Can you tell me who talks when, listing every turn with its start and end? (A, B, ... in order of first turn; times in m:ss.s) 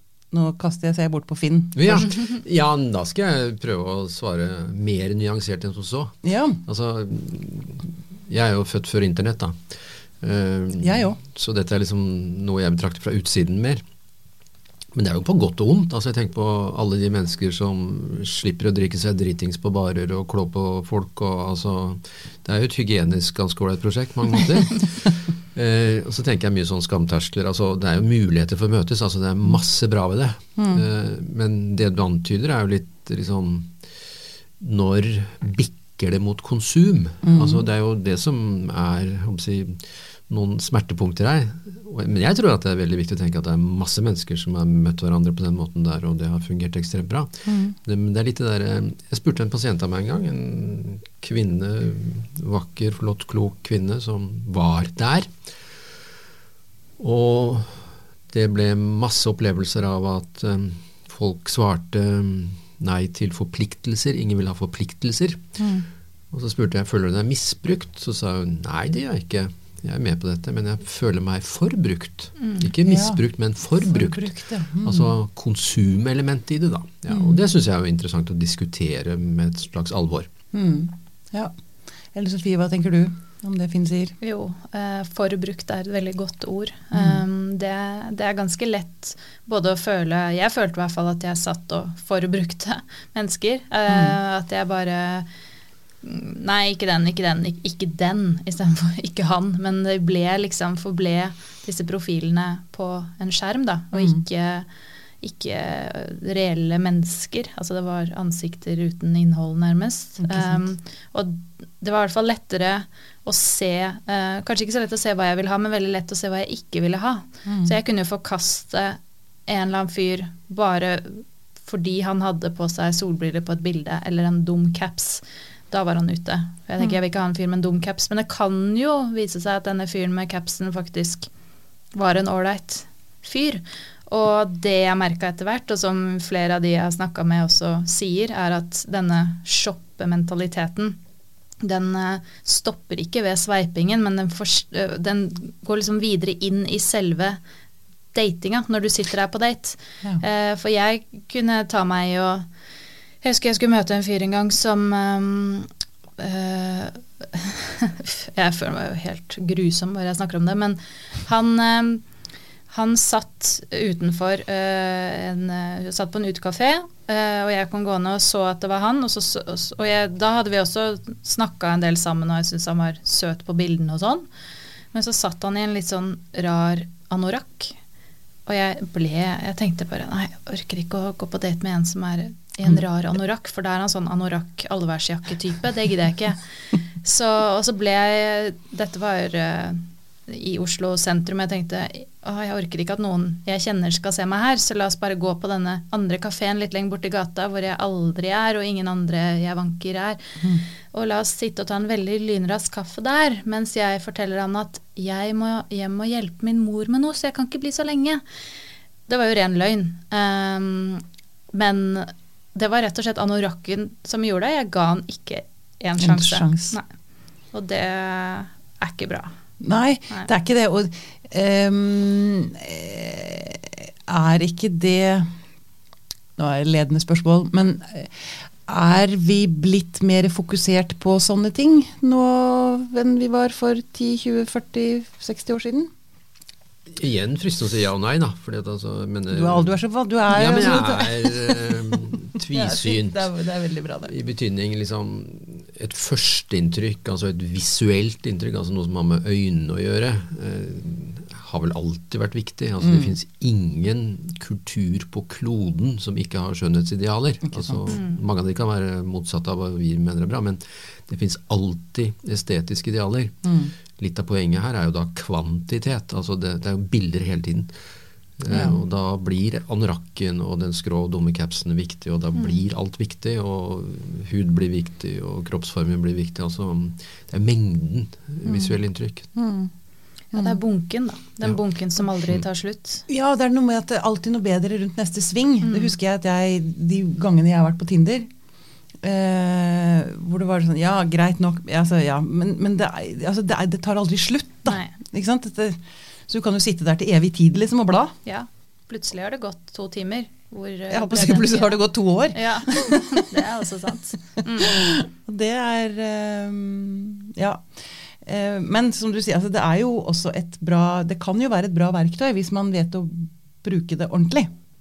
0:00.3-0:02.1 A
0:01.8-0:13.8 B
0:06.2-0:06.6 A
0:10.8-0:11.2 A
0:14.9-0:33.7 B
0:30.6-0:30.8 A
0:34.6-0:55.3 B
0:37.2-0:37.6 A
0:47.4-0:47.8 A
0:57.0-1:05.5 B
1:05.6-1:05.8 A
1:06.3-1:20.3 B
1:12.4-1:12.6 C
1:12.8-1:13.2 A
1:13.9-1:15.1 A
1:17.1-1:17.4 A
1:20.5-1:21.5 A
1:22.1-1:24.2 A
1:24.2-1:35.3 C
1:26.9-1:27.2 A
1:33.9-1:34.2 A
1:36.0-1:44.7 C
1:43.9-1:44.2 A
1:45.2-2:11.3 C
1:50.2-1:50.6 A
1:57.4-1:57.7 A
2:11.9-2:21.0 C
2:21.6-2:27.4 C
2:28.1-2:32.5 C
2:33.2-2:42.0 C
2:42.7-2:54.2 C
2:54.9-2:57.8 C
2:58.4-3:06.4 C
3:07.0-3:20.3 C
3:20.9-3:28.2 C
3:29.1-3:36.9 C
3:36.0-3:36.8 A
3:37.5-3:39.4 C
3:39.6-3:45.3 A
3:46.4-3:55.9 A
3:56.9-3:59.8 B
3:59.3-4:04.1 A
4:00.3-4:03.3 B
4:04.0-4:27.7 B
4:12.8-4:13.1 A
4:17.4-4:17.9 A
4:17.9-4:18.2 C
4:23.4-4:23.7 A
4:28.4-4:39.3 B
4:28.5-4:28.8 A
4:39.3-4:39.7 A
4:40.3-4:40.6 A
4:40.3-4:43.0 C
4:43.1-4:48.3 A
4:45.6-4:45.9 C
4:49.0-4:58.2 A
4:54.7-4:54.9 C
4:58.2-5:01.8 C
5:00.9-5:03.2 A
5:02.3-5:04.9 C
5:04.6-5:14.5 A